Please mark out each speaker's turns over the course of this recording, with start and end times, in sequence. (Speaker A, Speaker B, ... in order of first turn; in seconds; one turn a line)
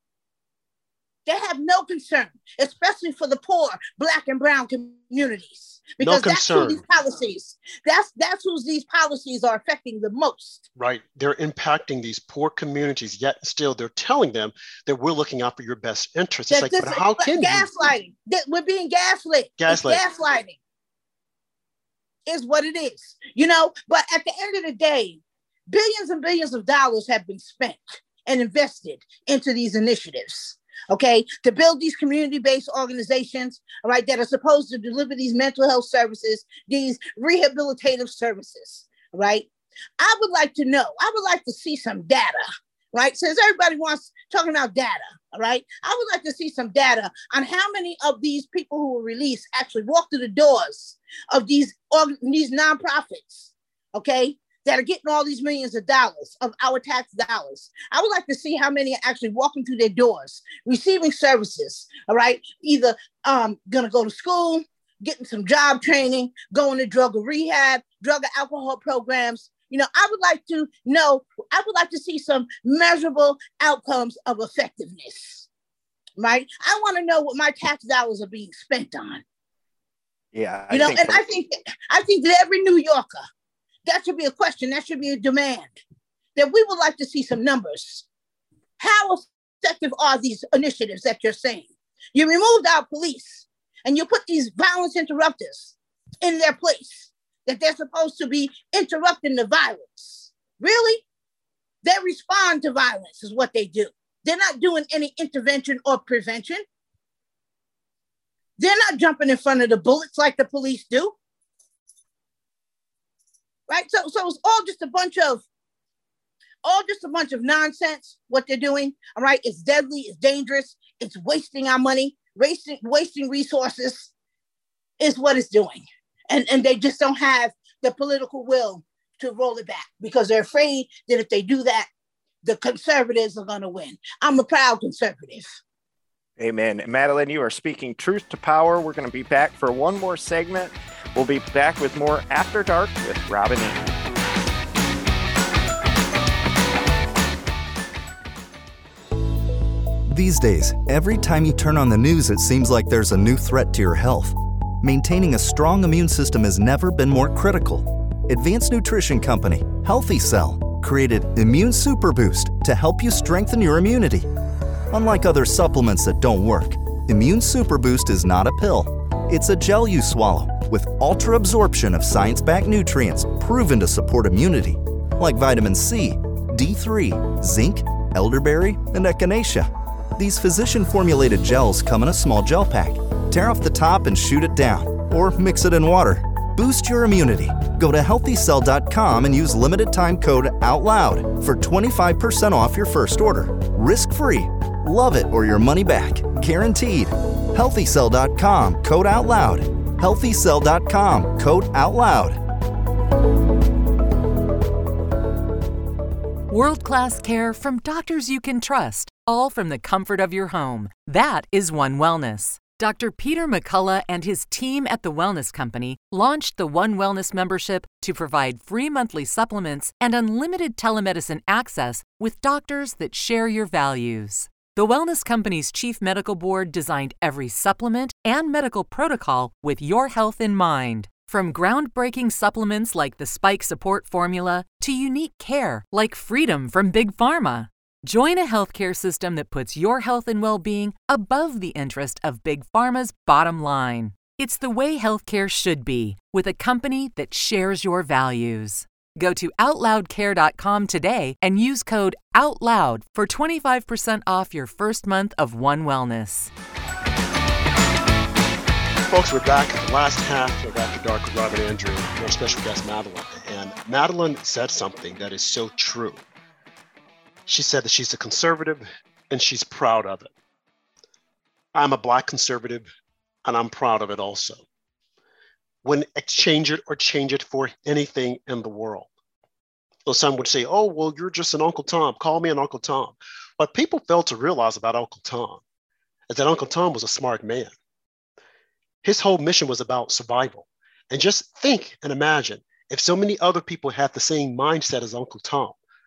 Speaker A: 1.2-10.6
Speaker B: 6.0-6.8
Speaker B: 10.8-17.7
Speaker A: 16.5-20.6
Speaker B: 19.6-20.0
Speaker A: 22.3-39.5
Speaker A: 40.0-75.5
Speaker A: 76.2-79.2
Speaker C: 80.3-81.2
Speaker A: 80.7-83.2
Speaker A: 83.8-85.7
Speaker A: 86.3-88.0
Speaker A: 88.8-101.0
Speaker A: 101.8-106.6
Speaker A: 108.6-111.1
Speaker A: 113.7-115.4
Speaker A: 116.6-124.1
Speaker A: 125.0-131.9
Speaker A: 132.4-135.5
Speaker C: 136.4-143.9
Speaker D: 150.1-164.3
Speaker D: 164.9-202.4
Speaker E: 206.5-256.5
Speaker B: 259.1-266.2
Speaker B: 267.5-270.3
Speaker B: 271.7-272.9
Speaker B: 273.4-274.6
Speaker B: 275.8-279.1
Speaker B: 280.1-285.6
Speaker B: 286.3-287.7
Speaker B: 289.0-295.8